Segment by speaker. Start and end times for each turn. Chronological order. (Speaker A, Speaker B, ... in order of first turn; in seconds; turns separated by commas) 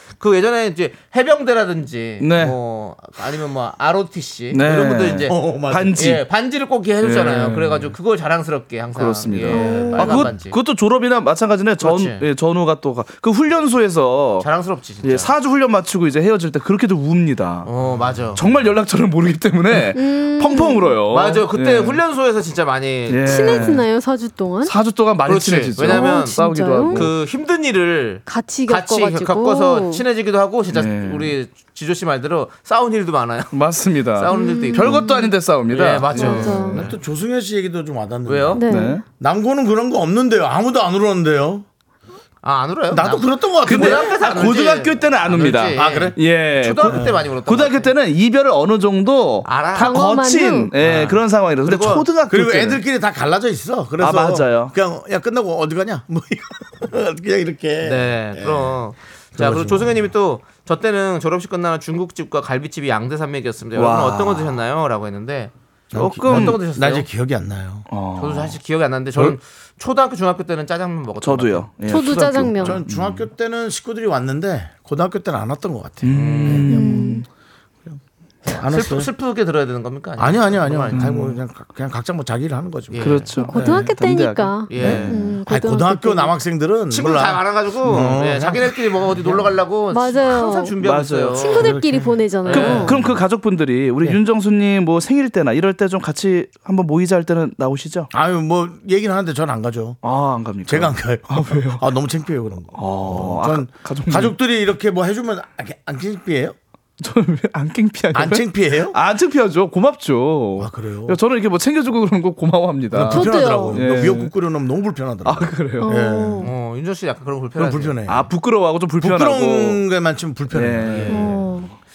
Speaker A: 0.2-5.4, Speaker B: 2.2-2.6, Speaker B: 4.5-6.2, Speaker C: 5.3-6.0, Speaker A: 6.0-10.6, Speaker B: 7.0-8.0, Speaker B: 8.9-14.5, Speaker D: 9.5-10.3, Speaker A: 11.8-12.2, Speaker A: 14.4-15.3, Speaker B: 15.0-17.7, Speaker A: 17.6-18.4, Speaker B: 18.3-22.0, Speaker D: 19.9-21.0, Speaker A: 21.1-23.6, Speaker B: 23.1-23.9, Speaker D: 23.2-24.8, Speaker B: 24.6-27.1, Speaker A: 25.2-26.4, Speaker D: 25.8-27.0, Speaker A: 26.9-35.0, Speaker D: 28.2-30.0, Speaker B: 30.7-31.3, Speaker B: 33.5-36.7, Speaker D: 34.3-35.3, Speaker A: 35.7-37.0, Speaker D: 36.1-36.8, Speaker C: 36.5-41.6, Speaker A: 38.2-38.6, Speaker D: 38.5-39.0, Speaker B: 38.6-39.0, Speaker A: 42.4-47.9, Speaker C: 42.9-44.1, Speaker B: 43.6-52.8, Speaker C: 45.7-46.2, Speaker C: 46.9-47.2, Speaker A: 49.4-49.9, Speaker D: 49.8-50.7, Speaker A: 50.8-52.0, Speaker C: 52.3-58.8, Speaker B: 54.0-54.7, Speaker A: 57.8-65.5, Speaker C: 59.4-60.1, Speaker B: 63.7-64.6, Speaker C: 65.9-67.9, Speaker B: 65.9-66.6, Speaker A: 66.2-67.1, Speaker B: 67.9-68.6, Speaker A: 68.2-71.7, Speaker B: 71.2-73.2, Speaker D: 71.8-72.8, Speaker C: 72.6-76.9, Speaker B: 76.0-77.2, Speaker A: 76.1-76.8, Speaker D: 76.6-77.2, Speaker A: 78.5-81.1, Speaker C: 78.5-79.1, Speaker C: 80.2-83.9, Speaker B: 80.9-81.4, Speaker A: 82.9-83.3, Speaker B: 83.0-85.3, Speaker D: 83.3-86.3, Speaker A: 84.7-85.2, Speaker C: 84.8-89.5, Speaker A: 86.9-91.7, Speaker D: 89.9-90.8, Speaker B: 90.8-91.7, Speaker D: 91.3-93.0, Speaker C: 91.6-92.2, Speaker A: 92.4-92.9, Speaker B: 92.5-98.1, Speaker C: 92.8-93.2, Speaker C: 98.1-100.0, Speaker B: 100.0-101.8, Speaker C: 100.7-106.5, Speaker B: 102.7-104.3, Speaker B: 107.0-114.3, Speaker C: 108.1-109.0, Speaker C: 110.6-111.2, Speaker C: 112.9-116.5, Speaker D: 113.1-113.9, Speaker B: 115.2-116.0, Speaker D: 115.8-116.5, Speaker A: 116.4-118.0, Speaker C: 117.5-118.3, Speaker B: 118.1-119.8, Speaker C: 119.0-121.3, Speaker B: 120.5-121.6, Speaker A: 120.8-121.3, Speaker D: 121.1-121.7